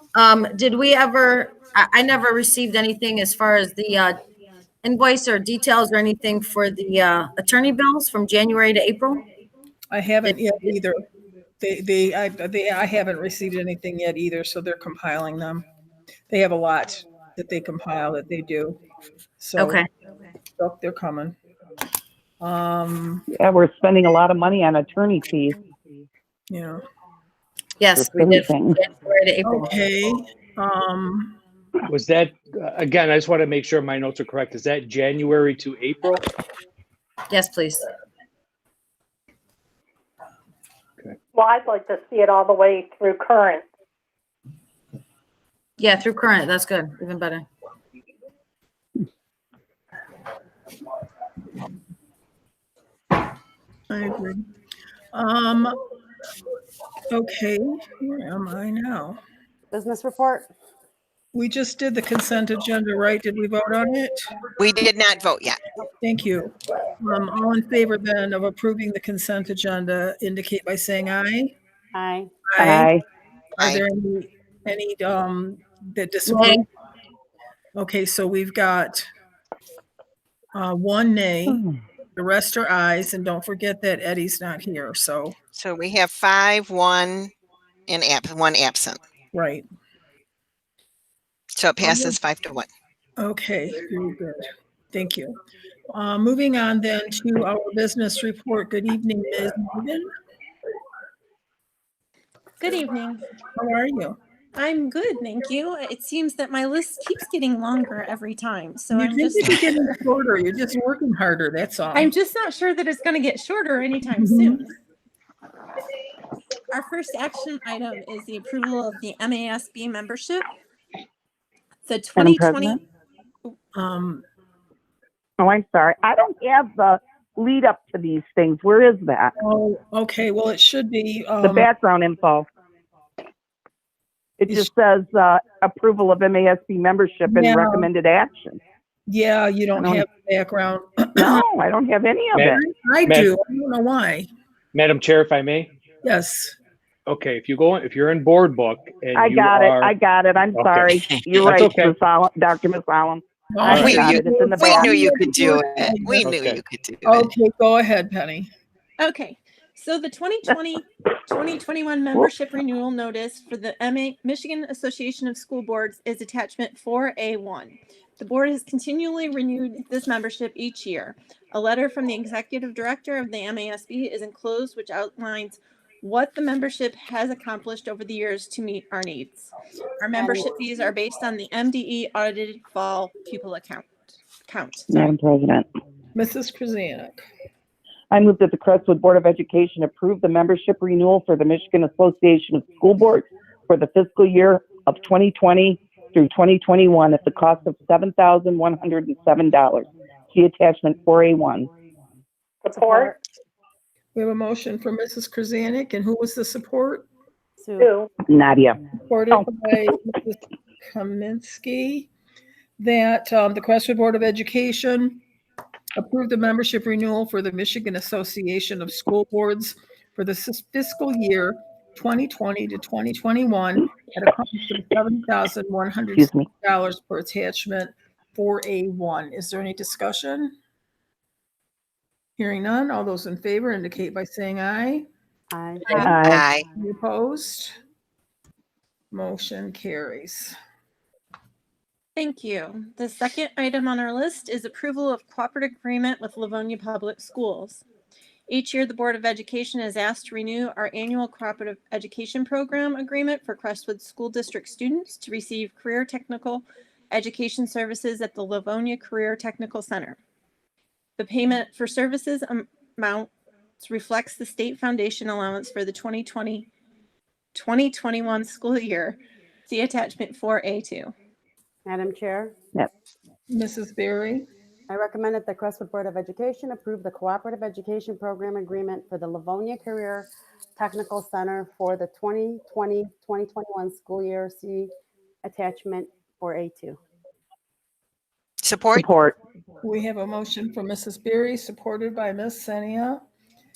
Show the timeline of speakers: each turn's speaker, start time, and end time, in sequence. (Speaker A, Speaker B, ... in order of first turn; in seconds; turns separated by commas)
Speaker A: 0.1-4.2, Speaker A: 4.8-9.2, Speaker B: 9.9-11.0, Speaker B: 11.6-15.7, Speaker B: 16.3-18.8, Speaker B: 19.4-19.9, Speaker A: 19.6-19.9, Speaker B: 20.6-21.4, Speaker B: 22.4-23.2, Speaker C: 23.3-25.6, Speaker B: 26.5-26.8, Speaker A: 27.8-29.7, Speaker C: 27.9-28.8, Speaker B: 29.4-31.4, Speaker D: 31.9-36.2, Speaker A: 37.3-37.9, Speaker E: 41.4-43.6, Speaker A: 45.8-47.5, Speaker B: 53.9-54.4, Speaker B: 55.1-55.8, Speaker B: 57.1-59.2, Speaker F: 59.7-60.5, Speaker B: 61.3-64.3, Speaker G: 64.6-65.6, Speaker B: 66.0-71.5, Speaker F: 71.9-72.3, Speaker B: 72.5-72.9, Speaker C: 72.6-73.0, Speaker B: 73.6-76.7, Speaker A: 76.3-76.6, Speaker B: 77.8-79.1, Speaker B: 80.5-81.6, Speaker C: 81.5-81.8, Speaker B: 82.2-85.4, Speaker G: 85.6-87.3, Speaker G: 87.9-89.0, Speaker B: 89.3-89.7, Speaker G: 91.6-92.7, Speaker B: 91.8-92.2, Speaker B: 93.2-95.3, Speaker B: 95.9-100.1, Speaker H: 102.6-103.2, Speaker B: 103.5-104.2, Speaker H: 104.5-109.8, Speaker B: 108.9-112.1, Speaker H: 111.9-114.8, Speaker B: 114.1-114.7, Speaker H: 116.7-120.5, Speaker H: 121.9-122.8, Speaker C: 122.2-122.8, Speaker B: 123.8-124.2, Speaker C: 125.4-129.3, Speaker B: 129.4-131.7, Speaker C: 131.4-132.5, Speaker C: 134.4-138.6, Speaker B: 137.3-137.9, Speaker B: 139.1-141.4, Speaker C: 139.8-140.1, Speaker C: 141.2-142.6, Speaker D: 142.3-143.3, Speaker B: 142.6-144.3, Speaker D: 144.7-145.7, Speaker B: 146.0-146.6, Speaker D: 147.1-149.9, Speaker C: 149.2-155.0, Speaker D: 150.6-151.9, Speaker B: 153.5-156.3, Speaker D: 153.7-154.0, Speaker G: 153.7-157.2, Speaker D: 156.2-156.6, Speaker B: 157.1-158.5, Speaker H: 159.0-185.1, Speaker F: 180.1-180.5, Speaker C: 184.9-185.7, Speaker B: 186.2-187.2, Speaker C: 188.1-201.7, Speaker E: 202.6-203.2, Speaker F: 202.8-203.1, Speaker B: 204.2-207.1, Speaker F: 207.6-207.9, Speaker E: 207.8-208.1, Speaker C: 208.3-208.8, Speaker B: 209.1-210.4, Speaker B: 210.9-212.1, Speaker B: 212.8-215.2, Speaker B: 216.0-230.5, Speaker C: 226.2-226.5, Speaker B: 232.4-235.1, Speaker F: 235.5-236.1, Speaker B: 235.9-237.7, Speaker C: 236.0-236.4, Speaker G: 236.3-236.7, Speaker B: 239.1-240.6, Speaker H: 242.2-247.8, Speaker H: 248.5-260.2, Speaker H: 261.2-266.7, Speaker H: 267.6-271.1, Speaker F: 271.9-272.5, Speaker B: 273.5-274.5, Speaker F: 274.9-284.9, Speaker F: 285.4-287.0, Speaker G: 288.6-289.1, Speaker C: 288.9-289.4, Speaker B: 289.8-293.2